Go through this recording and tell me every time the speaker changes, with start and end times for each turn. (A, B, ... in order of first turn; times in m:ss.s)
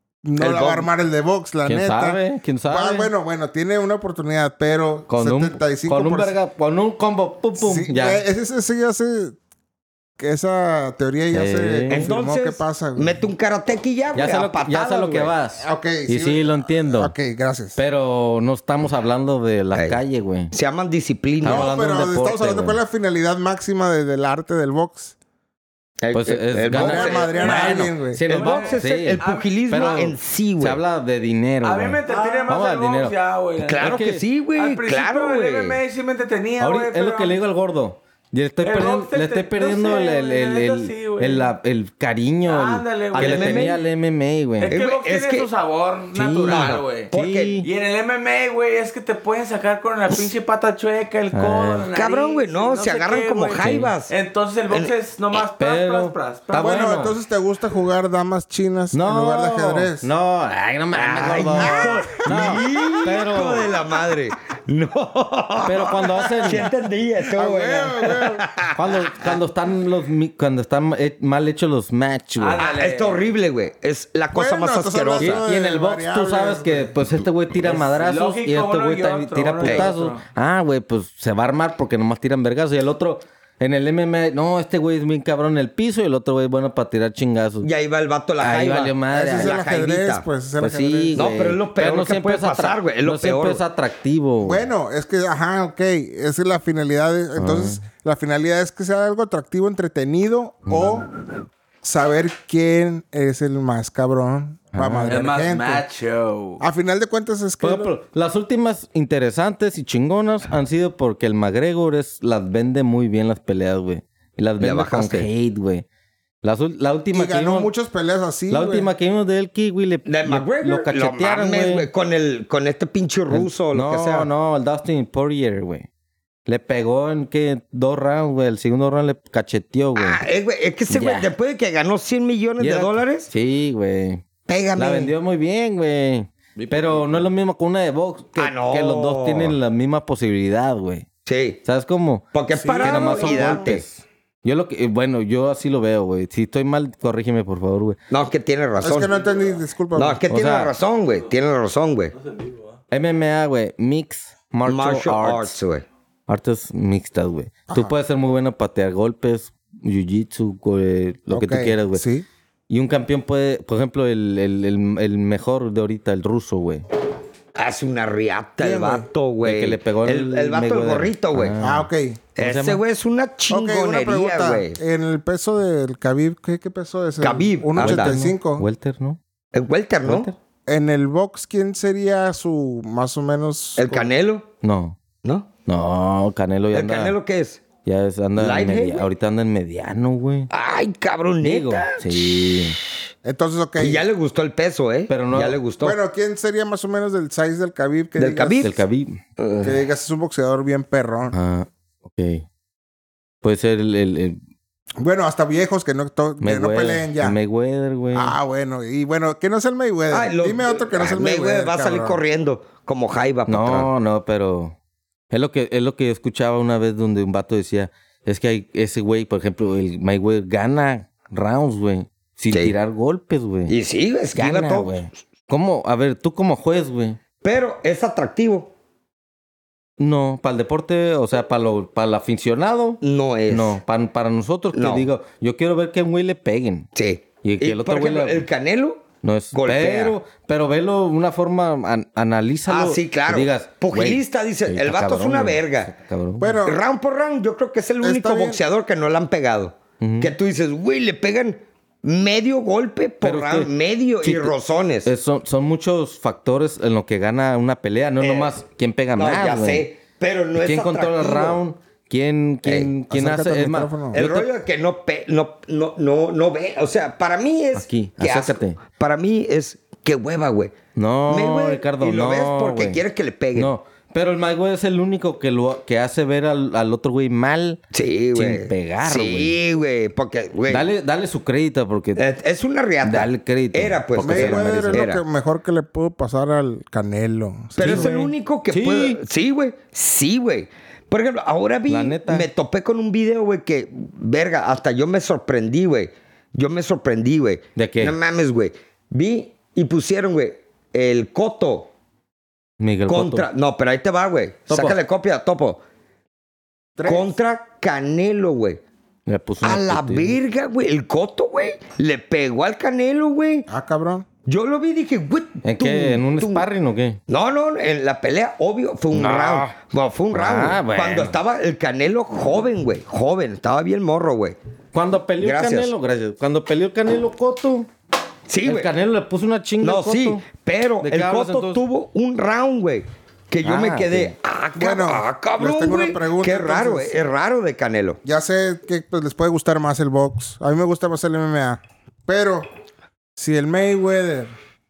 0:00.2-0:06.3 A
0:00.4-0:00.9 B
0:01.6-0:03.1 C
0:05.1-0:08.2 C
0:07.6-0:09.4 A
0:10.2-0:13.1 A
0:11.3-0:12.1 C
0:11.9-0:15.3 B
0:14.2-0:17.1 C
0:15.6-0:17.8 A
0:17.8-0:20.5 C
0:19.7-0:20.0 B
0:20.5-0:21.8 B
0:21.4-0:22.8 C
0:21.4-0:25.2 A
0:26.0-0:30.8 B
0:26.1-0:33.2 C
0:26.7-0:28.2 A
0:27.3-0:30.0 D
0:31.6-0:34.0 D
0:32.1-0:32.4 B
0:33.6-0:35.8 B
0:33.8-0:34.2 C
0:34.6-0:37.4 D
0:36.6-0:44.8 C
0:38.6-0:41.5 D
0:42.4-0:43.8 D
0:43.2-0:43.8 B
0:44.6-0:57.0 D
0:44.7-0:45.5 B
0:46.1-0:47.7 C
0:46.5-0:47.6 B
0:51.3-0:51.9 C
0:52.0-0:54.1 B
0:53.6-0:53.9 C
0:55.6-0:57.2 C
0:56.6-1:00.1 A
0:58.9-1:03.7 C
1:00.9-1:09.4 B
1:01.3-1:03.2 A
1:05.6-1:06.7 C
1:06.1-1:06.7 A
1:07.3-1:08.4 A
1:08.8-1:12.6 C
1:12.4-1:13.2 D
1:12.6-1:15.4 B
1:14.3-1:16.9 A
1:15.2-1:27.7 C
1:17.6-1:20.2 D
1:19.6-1:19.9 B
1:27.6-1:30.3 B
1:28.4-1:29.6 C
1:29.1-1:31.3 A
1:30.6-1:34.6 C
1:31.1-1:33.6 B
1:34.4-1:41.1 A
1:37.4-1:37.8 C
1:40.7-1:41.0 C
1:41.8-1:45.8 A
1:44.7-1:45.2 C
1:45.1-1:46.6 D
1:46.6-1:47.9 A
1:47.6-1:55.8 C
1:54.6-1:55.3 B
1:56.4-1:57.7 C
1:57.1-1:58.9 A
1:58.5-2:01.9 C
2:00.1-2:04.3 B
2:03.3-2:05.9 C
2:06.5-2:10.2 C
2:10.0-2:13.3 B
2:10.9-2:11.3 C
2:12.6-2:14.2 C
2:14.5-2:15.1 B
2:14.8-2:21.1 C
2:16.6-2:17.2 D
2:18.4-2:19.6 B
2:21.3-2:21.6 B
2:21.6-2:22.3 C
2:22.3-2:23.8 B
2:22.5-2:23.5 D
2:22.8-2:28.0 C
2:28.1-2:29.1 B
2:28.8-2:30.2 A
2:29.1-2:29.6 D
2:29.9-2:32.1 B
2:30.3-2:30.7 C
2:32.1-2:32.8 D
2:32.9-2:35.6 C
2:34.6-2:35.8 B
2:36.3-2:42.0 C
2:41.3-2:42.3 A
2:42.7-2:46.8 C
2:47.6-2:51.6 B
2:48.6-2:49.1 A
2:49.4-2:52.8 C
2:51.6-2:52.2 A
2:52.4-2:54.8 B
2:53.5-2:58.6 A
2:57.2-2:58.2 B
2:57.8-2:59.2 C
2:59.5-3:00.3 B
3:00.0-3:00.4 C
3:00.7-3:04.1 A
3:03.8-3:04.5 B
3:04.6-3:05.0 C
3:05.2-3:05.5 B
3:05.7-3:07.2 C
3:06.7-3:07.6 B
3:07.8-3:10.5 C
3:08.4-3:09.1 B
3:10.5-3:12.8 B
3:11.4-3:12.8 C
3:13.2-3:14.0 A
3:13.8-3:16.0 B
3:15.1-3:15.6 C
3:15.8-3:18.8 A
3:18.2-3:18.8 B
3:18.6-3:19.2 C
3:19.4-3:19.8 B
3:19.6-3:21.4 A
3:21.3-3:22.4 C
3:23.4-3:24.4 C
3:25.0-3:27.4 A
3:26.4-3:28.4 C
3:28.1-3:32.2 A
3:30.1-3:33.9 B
3:33.5-3:34.8 C
3:35.3-3:43.8 C
3:43.7-3:45.0 B
3:44.4-3:47.2 C
3:47.4-3:48.7 B
3:50.0-3:56.9 C
3:53.0-3:53.8 B
3:54.7-3:55.1 B
3:57.0-4:00.2 B
3:57.4-3:58.5 C
3:59.2-4:06.6 C
4:02.7-4:05.9 B
4:06.4-4:06.8 A
4:06.6-4:15.1 B
4:08.0-4:08.6 A
4:10.0-4:10.3 C
4:13.2-4:13.7 C
4:14.2-4:14.5 C
4:15.0-4:19.9 C
4:18.2-4:18.6 B
4:19.2-4:21.6 B
4:20.6-4:24.5 C
4:22.6-4:22.9 B
4:23.1-4:24.2 A
4:24.1-4:30.8 B
4:27.8-4:28.8 C
4:31.0-4:33.0 C
4:31.3-4:33.7 B
4:33.6-4:37.8 C
4:37.9-4:40.9 B
4:38.3-4:39.6 C
4:40.7-4:42.2 C
4:42.2-4:45.2 B
4:43.0-4:45.1 C
4:44.2-4:48.1 A
4:47.8-5:01.9 B
4:47.8-4:49.2 C
4:51.9-4:52.5 C
4:57.8-4:58.2 C
5:02.8-5:03.5 C
5:03.1-5:05.8 B
5:04.7-5:05.0 C
5:07.0-5:07.3 A
5:07.0-5:08.8 B
5:09.3-5:10.4 C
5:09.6-5:13.7 B
5:13.7-5:14.3 A
5:14.5-5:16.7 B
5:15.6-5:17.2 C
5:17.3-5:24.6 B
5:19.1-5:19.7 C
5:20.3-5:21.3 C
5:24.9-5:27.9 C
5:25.4-5:25.9 B
5:28.5-5:28.9 B
5:28.6-5:30.4 C
5:29.8-5:38.2 B
5:31.0-5:31.8 C
5:33.6-5:34.3 C
5:34.8-5:37.2 A
5:38.2-5:42.7 A
5:43.4-5:44.5 A